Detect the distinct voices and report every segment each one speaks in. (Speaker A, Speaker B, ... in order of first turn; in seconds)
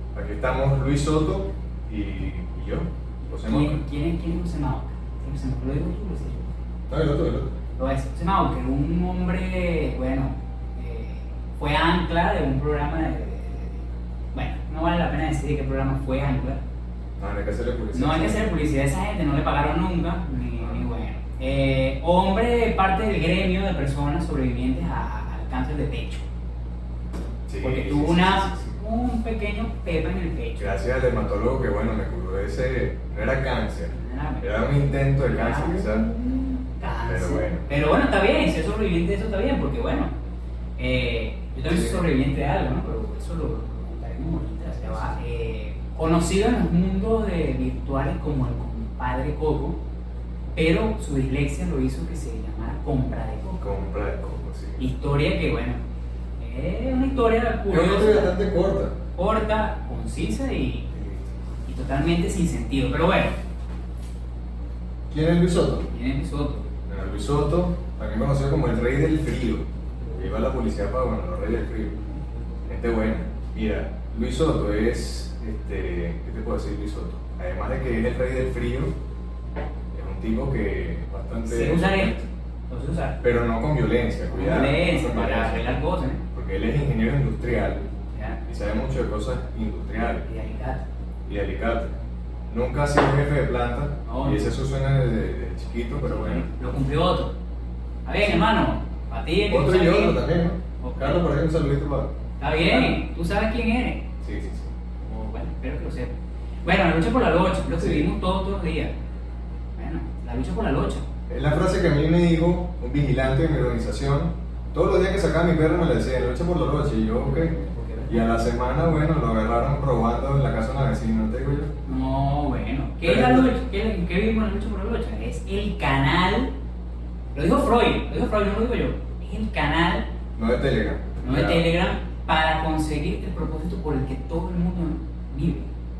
Speaker A: 0.1-3.8, 6.9-7.5, 17.2-18.6, 27.5-28.8, 30.6-36.1, 37.0-37.7, 41.7-42.0, 53.6-54.8, 57.7-59.0, 60.9-61.3, 65.1-65.9, 66.9-72.0, 72.7-78.9, 79.9-82.1, 83.2-85.8, 86.3-87.9, 88.5-90.2, 91.3-91.9, 92.5-96.5, 99.5-103.0, 104.2-104.7, 107.8-108.1, 111.3-117.6, 118.1-121.7, 123.0-123.5, 130.4-131.7
Speaker B: 3.3-6.6, 7.8-16.6, 17.9-26.2, 27.6-30.7, 33.9-40.1, 40.8-49.8, 50.5-53.7, 54.8-55.8, 56.4-58.4, 59.2-60.9, 61.7-63.4, 65.9-66.7, 81.5-83.2, 84.3-86.2, 88.1-88.4, 90.2-90.8, 94.1-94.5, 96.0-97.3, 98.0-100.2, 100.8-101.2, 102.4-104.1, 105.0-106.1, 106.6-108.9, 109.8-111.1, 117.2-118.2, 121.8-126.5, 127.3-130.1, 131.2-135.7